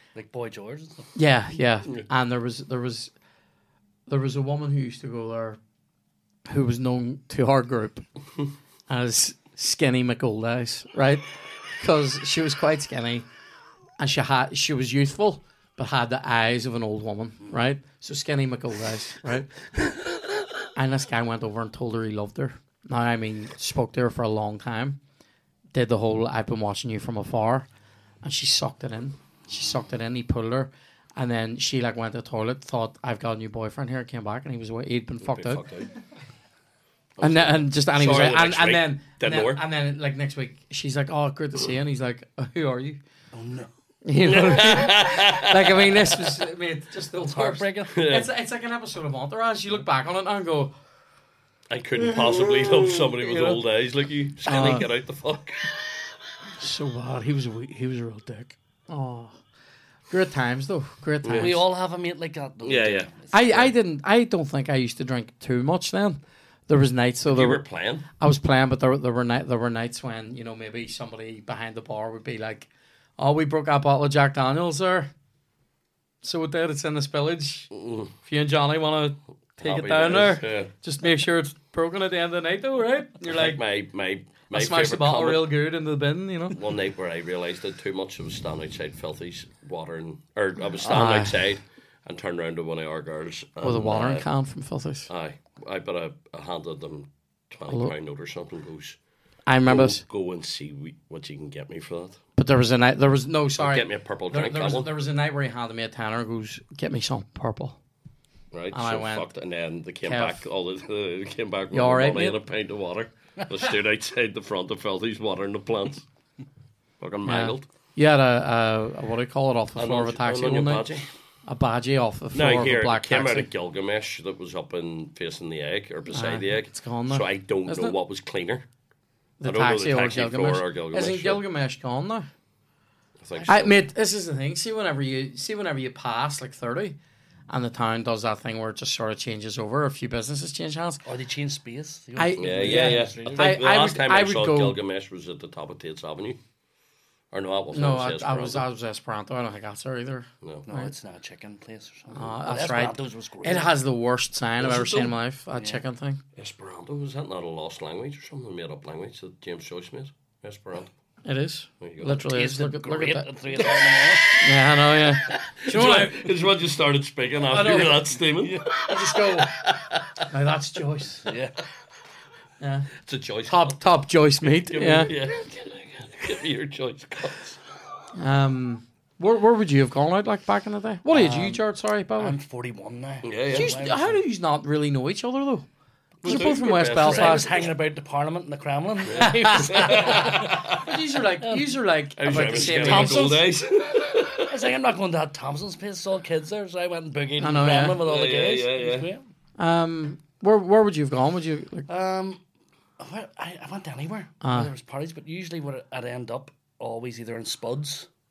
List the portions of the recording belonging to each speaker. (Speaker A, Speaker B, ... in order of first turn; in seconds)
Speaker A: 0.1-1.1, 43.3-43.7, 47.2-48.0, 61.4-63.3, 141.1-143.6, 150.7-153.7, 162.1-164.4, 168.4-168.7, 171.3-171.6, 181.1-181.6, 182.2-184.2, 186.2-190.6, 191.4-191.8, 192.3-193.4, 194.4-199.2, 201.9-202.4, 203.0-208.1
Speaker B: 1.1-3.1, 4.1-5.6, 6.5-8.1, 8.9-11.2, 11.8-13.3, 14.0-19.6, 20.8-25.0, 25.7-27.7, 28.2-35.6, 37.2-43.0, 44.0-50.8, 52.2-53.6, 54.5-54.9, 56.6-59.4, 60.1-61.6, 63.3-67.6, 68.2-75.1, 76.2-77.7, 78.2-83.6, 84.5-86.6, 90.8-91.5, 93.6-95.1, 99.5-100.0, 102.4-107.8, 108.7-109.3, 110.0-110.4, 111.7-112.4, 117.2-120.9, 121.5-123.5, 126.1-128.0, 129.4-132.3, 133.5-137.0, 137.5-141.0, 142.2-144.8, 147.7-150.9, 152.1-156.2, 161.2-163.3, 164.4-166.3, 167.5-168.1, 168.8-169.5, 170.3-171.3, 172.6-172.9, 173.5-175.1, 178.2-182.4, 183.5-185.7, 186.2-187.6, 189.2-193.4, 197.4-198.0, 199.6-201.9, 204.4-204.7
Speaker C: 35.2-35.9, 37.2-39.6, 44.2-46.3, 47.9-48.3, 51.7-55.7, 61.2-61.6, 62.6-63.7, 67.3-68.1, 77.7-78.1, 79.6-80.7, 83.3-85.5, 86.5-94.3, 95.1-99.0, 99.7-102.2, 103.6-104.9, 108.5-116.0, 117.0-117.7, 119.8-121.1, 122.3-128.7, 129.4-131.4, 133.2-133.8, 142.4-146.4, 147.3-148.7, 154.6-155.2, 156.4-160.9, 161.8-162.2, 165.3-170.2, 173.0-173.8, 174.4-177.6, 183.2-183.8, 186.2-187.7, 189.1-190.8, 192.2-194.6, 198.0-199.1